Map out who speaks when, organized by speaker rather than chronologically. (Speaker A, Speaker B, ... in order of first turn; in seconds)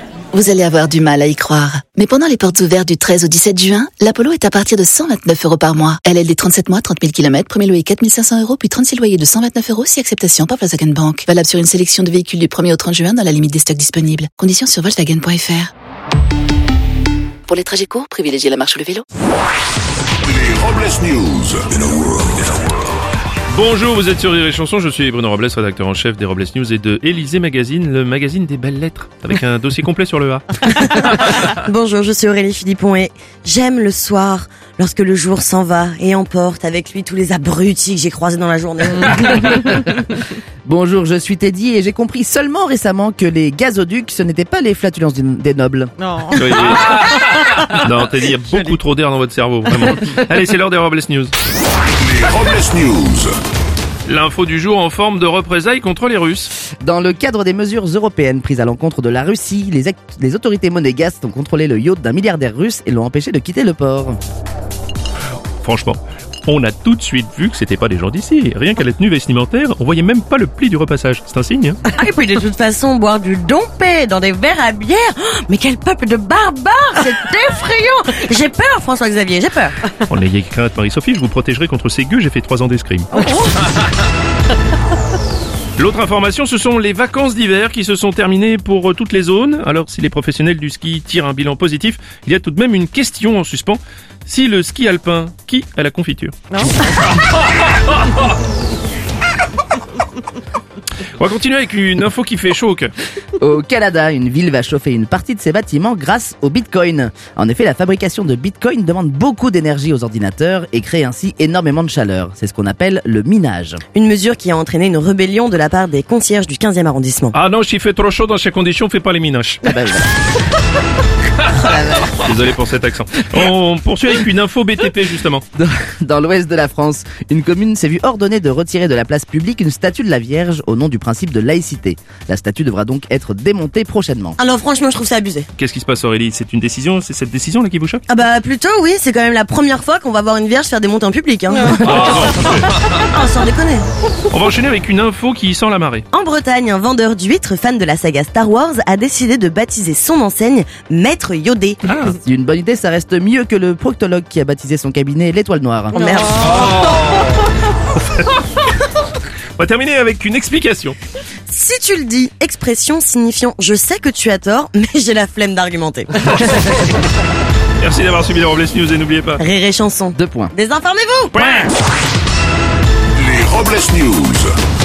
Speaker A: 0.3-15.7, 17.5-19.0
Speaker B: 20.2-22.8, 52.0-53.4, 173.2-174.5
Speaker C: 23.5-30.6, 46.3-51.3, 54.1-56.5, 65.6-71.8, 80.1-83.1, 85.8-97.3, 97.9-98.2, 101.2-102.9, 117.3-119.6, 122.1-125.5, 135.6-138.0, 141.8-142.8, 144.3-146.1, 151.8-152.2, 156.5-157.4, 158.0-158.4, 159.6-161.0, 167.8-169.4, 171.3-171.7
Speaker D: 30.6-39.8, 71.9-79.8, 83.2-83.5, 113.9-117.3, 134.4-135.5, 138.1-143.9, 146.1-151.8, 155.9-156.7, 161.5-166.4, 169.4-171.4
Speaker E: 40.7-45.9, 56.8-64.2, 103.4-113.8, 119.7-120.1, 121.7-122.1, 125.6-134.4, 152.2-156.2, 170.2-170.5